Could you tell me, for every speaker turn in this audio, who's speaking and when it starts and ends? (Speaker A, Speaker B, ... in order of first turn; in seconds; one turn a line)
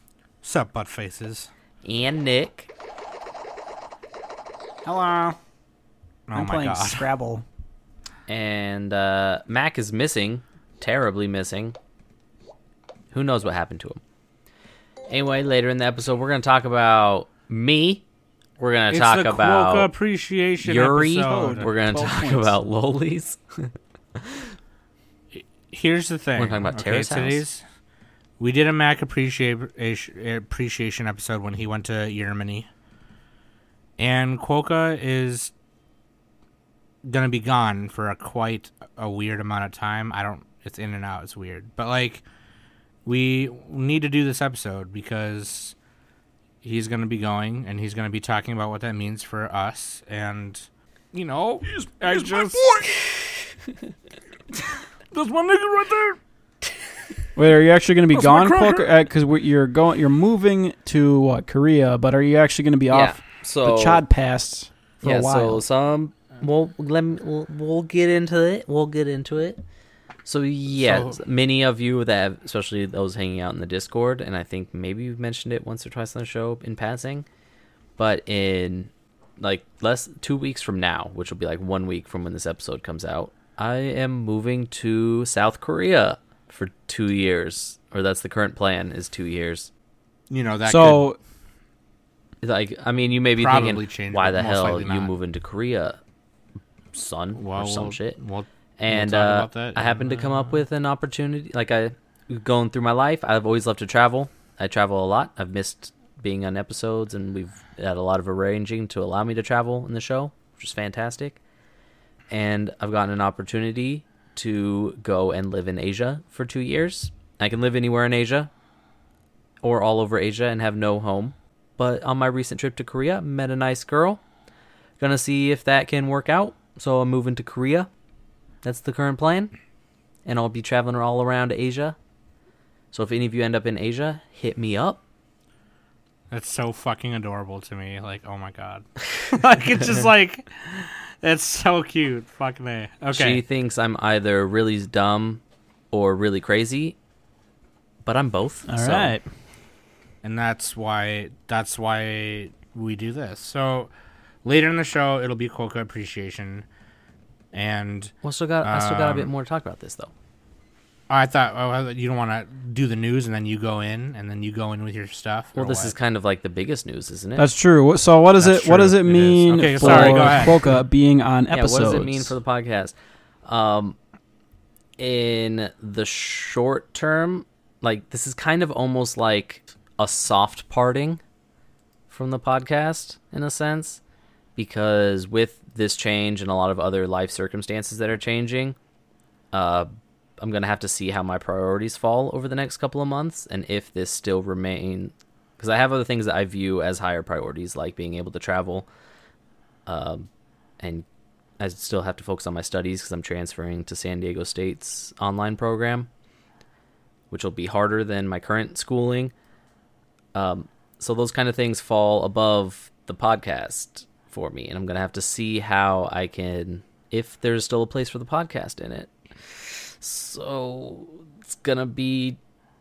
Speaker A: 0.4-1.5
Speaker B: 1.8-2.7
Speaker C: 4.8-5.4
Speaker A: 6.3-7.1
Speaker C: 6.3-7.5
Speaker B: 8.3-11.8
Speaker B: 13.1-14.0
Speaker B: 15.1-18.0
Speaker B: 18.6-19.9
Speaker A: 18.9-21.7
Speaker B: 20.6-24.5
Speaker C: 21.2-22.6
Speaker A: 25.3-27.6
Speaker B: 26.4-27.4
Speaker A: 28.4-32.7
Speaker A: 34.0-35.5
Speaker A: 37.0-42.2
Speaker A: 43.0-45.8
Speaker A: 46.6-52.9
Speaker C: 51.7-52.7
Speaker A: 55.1-56.2
Speaker C: 57.4-65.6
Speaker A: 58.1-58.9
Speaker B: 62.9-64.0
Speaker B: 65.0-69.6
Speaker B: 70.2-77.3
Speaker A: 70.7-71.2
Speaker B: 78.0-89.7
Speaker A: 90.3-91.0
Speaker C: 90.7-91.2
Speaker B: 92.4-96.0
Speaker A: 93.4-95.1
Speaker B: 96.9-98.2
Speaker A: 97.4-100.6
Speaker B: 98.8-111.4
Speaker B: 112.3-118.5
Speaker B: 119.6-124.2
Speaker B: 125.0-127.9
Speaker B: 128.6-129.5
Speaker B: 130.2-132.0
Speaker B: 132.9-135.0
Speaker A: 136.3-143.4
Speaker B: 143.1-145.4
Speaker B: 145.9-147.0
Speaker B: 148.1-149.1
Speaker C: 148.7-149.2
Speaker A: 150.2-153.9
Speaker A: 154.4-156.7
Speaker A: 157.5-159.3
Speaker B: 158.2-160.1
Speaker A: 161.1-165.9
Speaker B: 165.6-167.5
Speaker C: 167.4-172.3
Speaker B: 168.4-170.6
Speaker A: 169.5-170.8
Speaker B: 171.5-172.9
Speaker B: 173.4-174.0
Speaker B: 175.0-181.2
Speaker B: 182.1-184.0
Speaker B: 184.6-188.8
Speaker B: 189.5-189.9
Speaker B: 190.4-198.9
Speaker B: 199.9-200.3
Speaker B: 200.8-201.1
Speaker B: 201.6-206.1
Speaker B: 207.3-209.3
Speaker B: 210.3-222.4